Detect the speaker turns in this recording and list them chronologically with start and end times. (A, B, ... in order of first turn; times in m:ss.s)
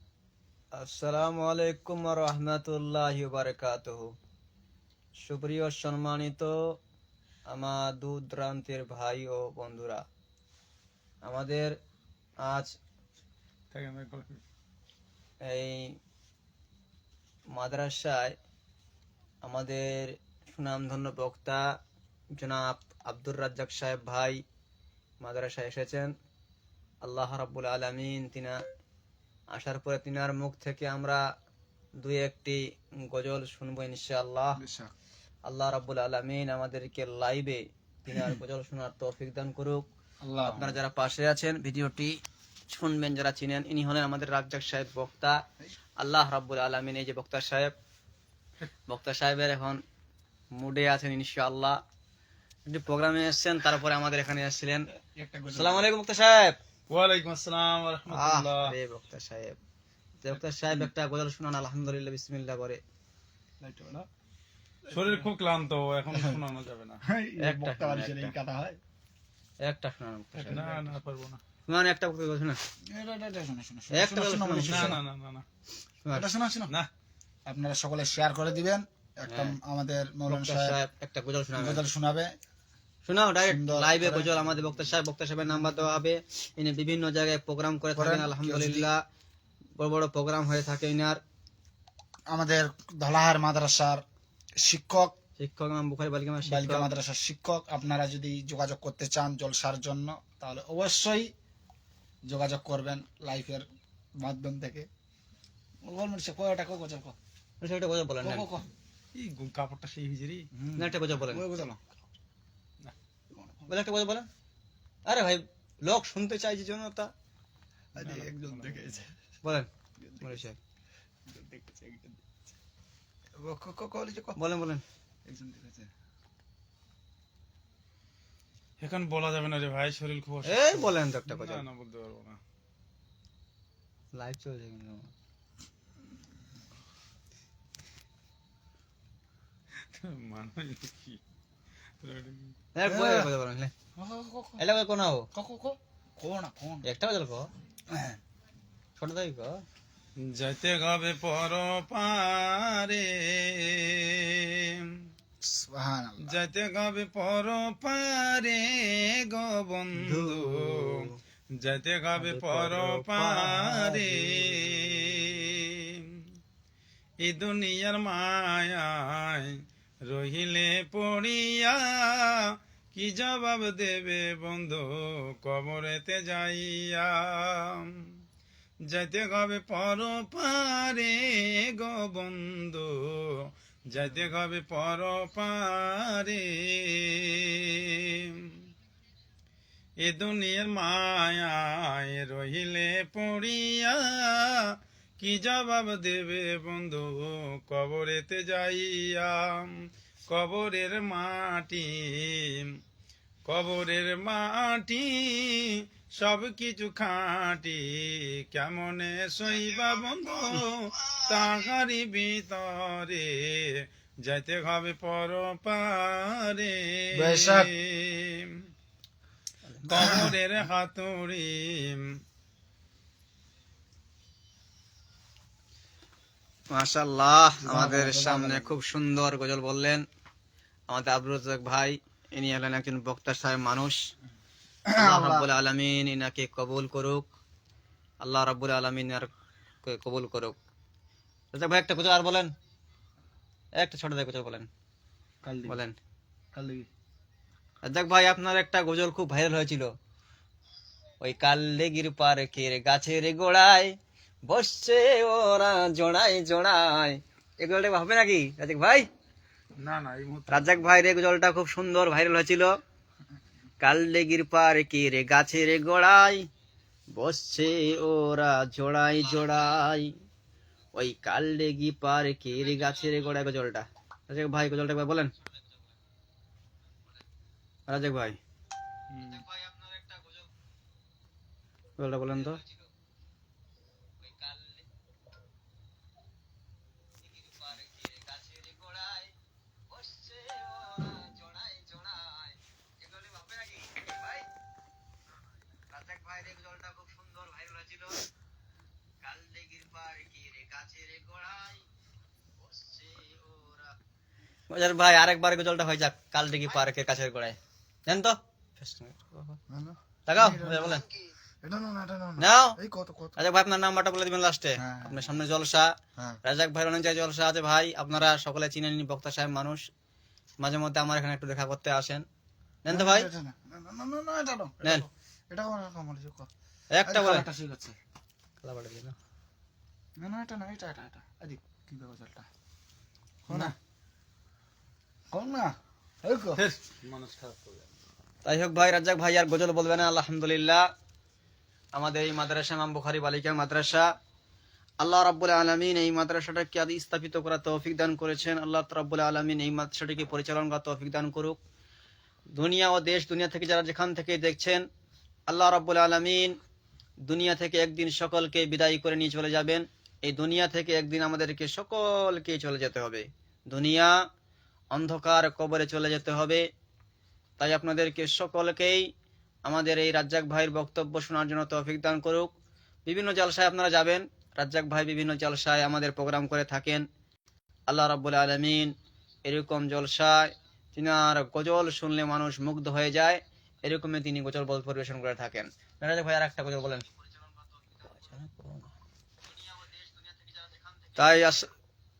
0:00.8-0:04.1 A
0:05.2-0:06.6 A
0:07.5-0:10.0 A
0:11.2-0:11.7 A
0:12.4-0:12.7 A
0:13.7-0:14.4 B
0:15.4-0:15.9 A
0:17.5-0:18.3 A
0:19.4-0:21.6 A
0:22.4-0:24.4 A
0:25.2-0:26.1 A
0:27.0-0:28.6 A
0:29.5-0:31.2 A
0:32.0-0:34.6 A
0:34.6-0:34.9 C
0:35.5-0:39.8 A
0:38.1-0:38.4 C
0:40.2-0:40.8 C
0:40.4-0:42.1 A
0:42.7-0:45.4 A
0:46.0-0:47.7 A
0:48.9-0:49.8 A
0:50.6-0:51.8 A
0:52.7-0:54.8 A
0:55.1-0:55.9 C
0:55.5-0:56.6 A
0:56.9-0:58.7 B
0:58.1-0:59.6 A
1:00.2-1:02.8 A
1:03.6-1:04.1 C
1:04.9-1:05.2 C
1:04.9-1:07.0 B
1:07.0-1:08.8 C
1:07.4-1:08.3 A
1:09.6-1:10.6 A
1:10.4-1:11.0 C
1:10.4-1:11.4 B
1:11.7-1:12.6 A
1:12.9-1:15.0 C
1:13.9-1:14.9 A
1:14.6-1:15.4 B
1:16.1-1:16.7 C
1:17.5-1:20.8 C
1:19.3-1:19.6 A
1:20.3-1:21.8 A
1:21.6-1:22.3 C
1:23.0-1:29.0 A
1:23.4-1:24.4 C
1:27.9-1:28.9 C
1:29.8-1:31.2 A
1:32.3-1:34.0 C
1:34.6-1:35.1 C
1:35.4-1:36.9 A
1:36.4-1:41.3 C
1:42.3-1:43.6 C
1:44.2-1:44.8 C
1:45.8-1:47.2 C
1:47.6-1:48.5 A
1:48.2-1:48.7 C
1:49.1-1:50.4 B
1:50.5-1:51.8 C
1:50.8-1:51.4 A
1:53.3-1:53.7 C
1:53.7-1:54.3 A
1:55.1-1:57.1 A
1:57.9-1:59.1 C
1:58.0-1:59.0 B
1:59.4-1:59.7 A
2:00.0-2:00.4 C
2:00.2-2:00.6 A
2:01.3-2:02.4 C
2:03.4-2:04.4 C
2:04.4-2:04.8 A
2:05.2-2:05.9 C
2:08.8-2:12.4 B
2:10.4-2:11.6 A
2:14.1-2:15.1 A
2:19.9-2:21.2 B
2:22.0-2:22.5 B
2:22.7-2:23.7 A
2:22.8-2:23.3 C
2:24.0-2:24.6 C
2:24.6-2:25.3 A
2:25.3-2:26.8 C
2:26.8-2:27.5 A
2:27.9-2:28.2 C
2:29.0-2:29.6 A
2:30.2-2:34.8 B
2:35.4-2:36.4 C
2:36.2-2:41.0 B
2:40.0-2:41.1 A
2:41.6-2:46.0 B
2:42.2-2:44.3 A
2:47.2-2:52.4 B
2:52.9-2:57.9 B
2:58.9-3:03.3 B
3:03.9-3:08.5 B
3:10.0-3:14.6 B
3:15.2-3:19.7 B
3:20.3-3:22.7 B
3:23.4-3:38.5 B
3:37.1-3:37.7 C
3:39.8-3:42.0 B
3:39.9-3:40.3 C
3:46.7-3:50.0 A
3:47.6-3:48.8 C
3:50.9-3:54.0 A
3:54.9-3:55.5 C
3:55.0-3:57.2 A
3:58.2-3:59.3 A
3:59.8-4:00.6 A
4:01.5-4:02.5 A
4:03.8-4:04.7 A
4:05.4-4:05.8 C
4:05.7-4:06.0 A
4:06.5-4:06.9 C
4:07.8-4:09.9 A
4:11.2-4:13.9 A
4:14.5-4:19.0 A
4:19.8-4:20.9 B
4:20.5-4:22.7 A
4:23.8-4:26.4 A
4:27.1-4:30.1 A
4:31.0-4:35.3 A
4:37.9-4:38.4 A
4:39.1-4:39.4 B
4:39.2-4:40.5 A
4:42.0-4:42.6 A
4:44.2-4:44.9 A
4:47.2-4:49.3 A
4:49.9-4:54.5 A
4:55.9-4:58.2 A
4:59.2-5:01.8 A
5:02.6-5:03.9 A
5:04.7-5:07.6 A
5:08.1-5:09.6 A
5:09.7-5:11.0 C
5:10.3-5:11.0 A
5:11.6-5:13.4 C
5:12.4-5:12.8 A
5:13.4-5:15.9 A
5:14.8-5:15.3 C
5:16.4-5:19.8 A
5:20.6-5:22.2 A
5:22.8-5:23.3 A
5:22.9-5:26.5 C
5:26.9-5:27.5 A
5:27.0-5:28.0 C
5:28.6-5:29.1 A
5:30.2-5:32.5 C
5:33.5-5:33.7 C
5:35.3-5:35.7 C
5:36.2-5:36.6 C
5:36.6-5:37.9 B
5:38.4-5:40.8 A
5:41.9-5:44.1 A
5:45.0-5:51.6 A
5:52.5-5:54.8 A
5:55.5-5:56.6 A
5:57.2-6:04.1 A
6:04.9-6:06.6 A
6:07.6-6:09.1 A
6:09.6-6:12.5 A
6:13.0-6:17.0 A
6:17.9-6:18.9 A
6:19.4-6:27.1 A
6:27.8-6:28.9 A
6:31.1-6:31.7 A